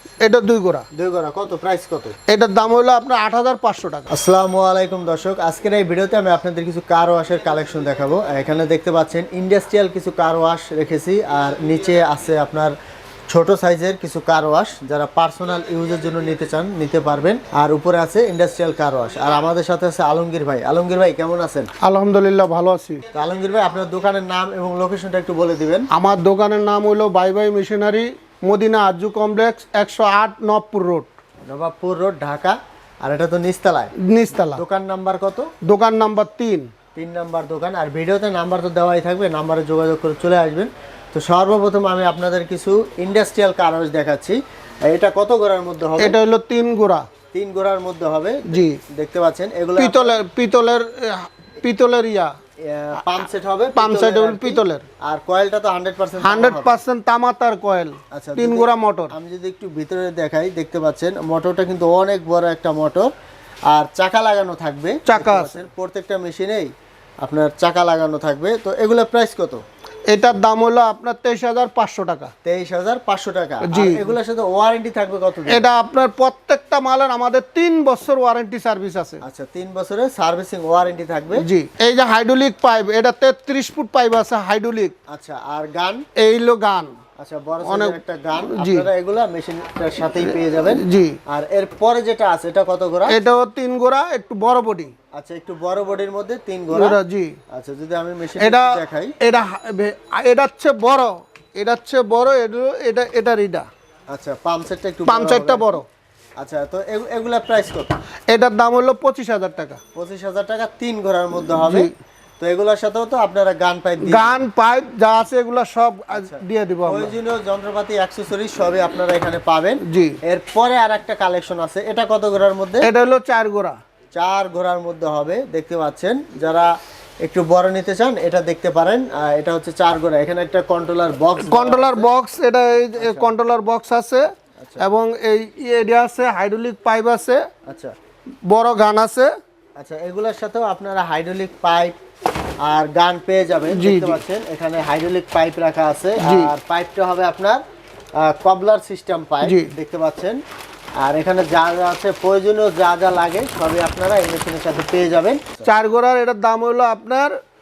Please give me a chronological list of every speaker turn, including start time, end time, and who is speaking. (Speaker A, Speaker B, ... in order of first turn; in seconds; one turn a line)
Speaker A: 0.2-0.9
Speaker B: 0.9-2.2
Speaker A: 2.3-4.1
Speaker B: 4.1-12.8
Speaker B: 13.3-21.7
Speaker A: 21.8-23.0
Speaker B: 23.1-25.9
Speaker A: 25.9-31.1
Speaker B: 31.5-34.0
Speaker A: 34.0-34.6
Speaker B: 34.5-35.5
Speaker A: 35.6-36.7
Speaker B: 37.0-46.2
Speaker A: 46.0-47.1
Speaker B: 47.3-50.2
Speaker A: 48.5-48.8
Speaker A: 49.8-52.3
Speaker B: 52.6-56.8
Speaker A: 53.8-54.8
Speaker A: 56.2-59.1
Speaker B: 58.1-63.1
Speaker B: 63.7-66.7
Speaker A: 65.1-65.6
Speaker B: 67.2-69.6
Speaker A: 70.1-72.3
Speaker B: 72.4-75.7
Speaker A: 73.7-74.2
Speaker A: 75.5-79.2
Speaker B: 79.2-81.5
Speaker A: 81.4-85.0
Speaker B: 85.1-86.1
Speaker A: 86.2-87.0
Speaker B: 87.2-93.2
Speaker A: 87.7-88.9
Speaker A: 90.7-91.2
Speaker A: 93.1-94.9
Speaker B: 95.1-97.0
Speaker A: 96.7-97.4
Speaker B: 97.5-99.1
Speaker A: 98.4-103.7
Speaker B: 104.1-105.8
Speaker A: 105.1-105.8
Speaker B: 106.4-107.9
Speaker A: 108.3-109.8
Speaker B: 110.0-114.4
Speaker A: 111.6-111.9
Speaker A: 114.0-117.1
Speaker B: 116.1-122.9
Speaker A: 119.8-120.2
Speaker A: 122.8-123.8
Speaker B: 124.1-126.7
Speaker B: 127.2-132.1
Speaker A: 131.4-134.3
Speaker B: 133.0-133.3
Speaker B: 134.6-134.8
Speaker A: 134.8-137.4
Speaker B: 137.7-137.9
Speaker A: 138.4-139.3
Speaker B: 139.8-141.9
Speaker B: 142.6-147.6
Speaker A: 143.7-144.2
Speaker A: 146.2-146.5
Speaker B: 148.1-150.4
Speaker A: 149.4-149.7
Speaker B: 151.0-155.7
Speaker A: 155.6-157.4